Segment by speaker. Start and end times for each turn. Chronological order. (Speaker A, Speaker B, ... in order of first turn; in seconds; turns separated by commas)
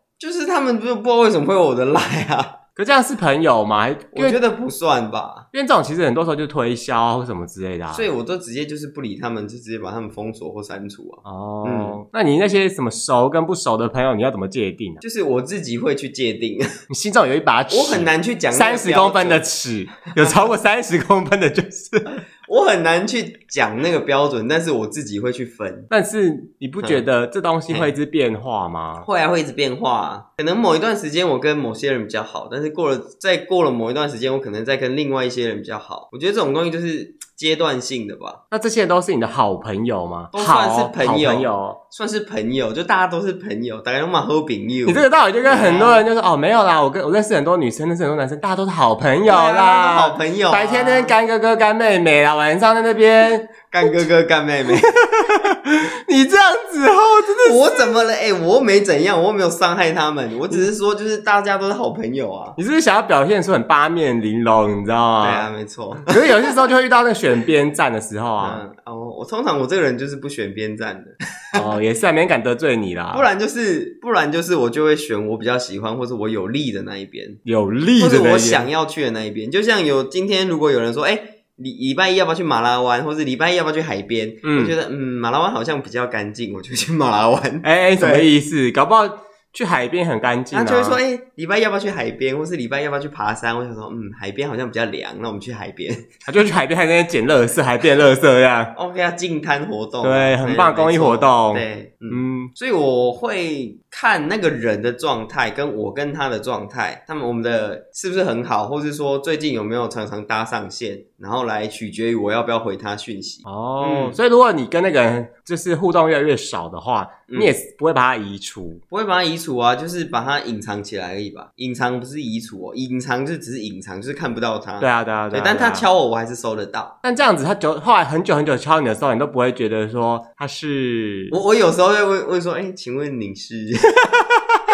Speaker A: 0.2-2.6, Speaker B: 2.8-4.4, Speaker A: 4.1-5.5, Speaker B: 5.5-8.1, Speaker A: 7.9-12.0, Speaker B: 11.2-15.0, Speaker A: 15.0-16.7, Speaker B: 16.9-22.2, Speaker A: 17.7-19.4, Speaker A: 22.4-25.9, Speaker B: 25.9-29.1, Speaker A: 29.0-38.4, Speaker B: 38.5-41.8, Speaker A: 40.3-46.0, Speaker B: 44.9-53.9, Speaker A: 49.2-51.1, Speaker A: 53.7-54.9, Speaker B: 54.7-57.6, Speaker A: 57.4-62.6, Speaker B: 62.6-65.5, Speaker A: 65.2-66.1, Speaker B: 66.1-68.6, Speaker A: 68.4-71.6, Speaker B: 71.5-73.3, Speaker A: 73.1-77.4, Speaker B: 77.5-78.7, Speaker A: 78.0-88.3, Speaker B: 84.4-84.7, Speaker B: 87.6-91.0, Speaker A: 90.5-96.1, Speaker B: 96.3-98.7, Speaker A: 98.8-114.2, Speaker B: 100.0-102.5, Speaker B: 113.5-118.8, Speaker A: 117.3-117.5, Speaker A: 118.9-127.0, Speaker B: 124.8-125.9, Speaker B: 127.0-131.4, Speaker A: 131.3-133.9